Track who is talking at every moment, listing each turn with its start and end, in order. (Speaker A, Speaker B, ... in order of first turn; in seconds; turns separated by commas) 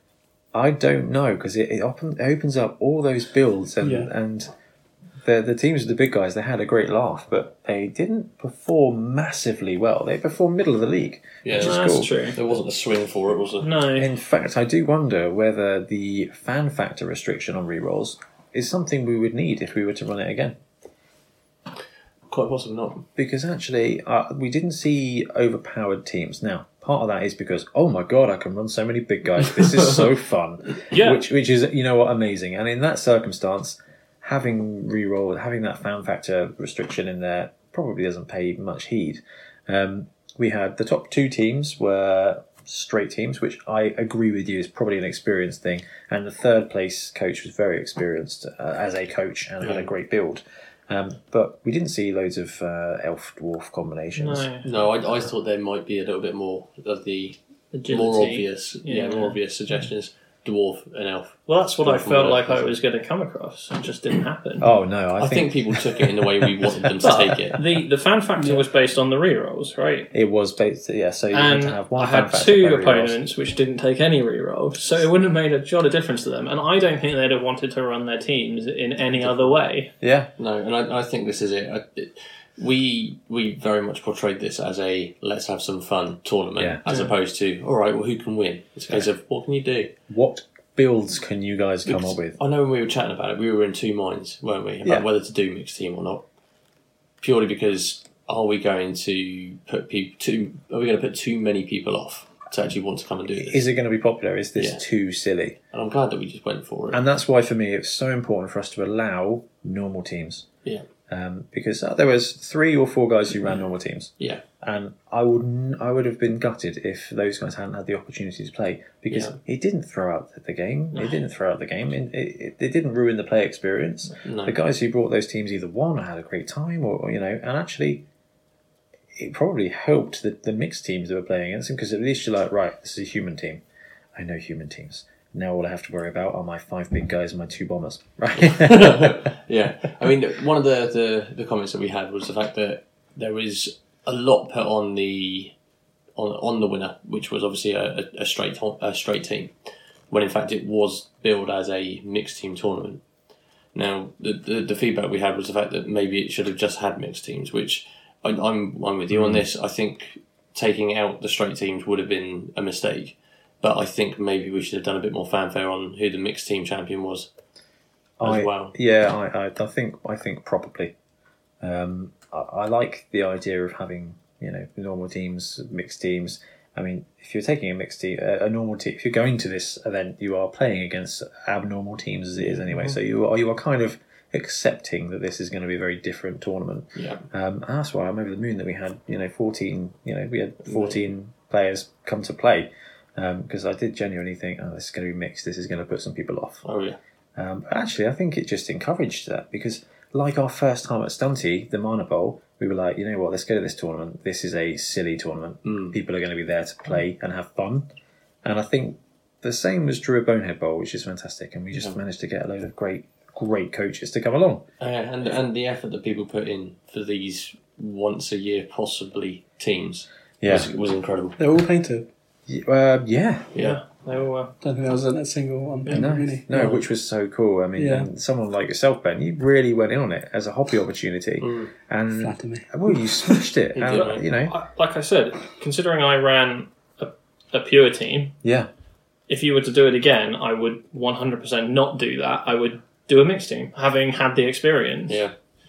Speaker A: 0.5-4.5, Speaker B: 3.8-4.1, Speaker A: 5.2-12.1, Speaker C: 11.4-13.7, Speaker D: 11.5-12.4, Speaker D: 13.6-14.1, Speaker A: 14.0-20.6, Speaker C: 22.3-23.1, Speaker A: 23.1-54.5, Speaker D: 30.9-31.2, Speaker C: 49.6-49.9, Speaker D: 54.1-54.7, Speaker C: 54.6-62.8, Speaker D: 57.7-59.4, Speaker D: 61.5-64.7, Speaker A: 64.6-66.6, Speaker C: 65.2-67.6, Speaker D: 67.0-70.1, Speaker B: 68.4-68.6, Speaker A: 70.1-73.2, Speaker D: 71.3-79.9, Speaker C: 79.2-79.5, Speaker A: 80.0-80.3, Speaker C: 80.4-89.9, Speaker D: 86.8-87.1, Speaker A: 90.1-92.4, Speaker C: 91.8-96.2, Speaker C: 97.2-103.6, Speaker A: 103.3-105.6, Speaker C: 104.5-104.8, Speaker C: 105.7-107.0, Speaker A: 106.9-110.5, Speaker A: 111.1-128.0, Speaker C: 119.1-119.4, Speaker C: 124.2-124.6, Speaker A: 129.1-133.6, Speaker A: 134.1-139.2, Speaker C: 138.5-145.5, Speaker C: 146.2-149.5, Speaker C: 150.1-153.0, Speaker C: 153.7-167.3, Speaker A: 159.1-159.4, Speaker A: 168.2-170.9, Speaker C: 168.2-168.7, Speaker A: 171.6-196.6, Speaker C: 182.4-182.9, Speaker C: 186.9-187.2, Speaker C: 190.6-190.9, Speaker C: 196.6-197.0, Speaker A: 197.3-207.9, Speaker C: 205.6-205.9, Speaker A: 208.4-214.7, Speaker C: 214.8-221.4, Speaker A: 220.4-220.7, Speaker B: 221.4-222.1, Speaker A: 222.5-223.5, Speaker C: 223.5-223.8, Speaker D: 223.6-224.5, Speaker B: 224.6-226.8, Speaker A: 225.9-234.5, Speaker B: 227.8-228.1, Speaker C: 231.4-231.7, Speaker B: 232.2-233.4, Speaker C: 233.8-234.2, Speaker D: 233.9-238.3, Speaker A: 238.4-238.7, Speaker D: 239.3-245.2, Speaker C: 245.1-245.3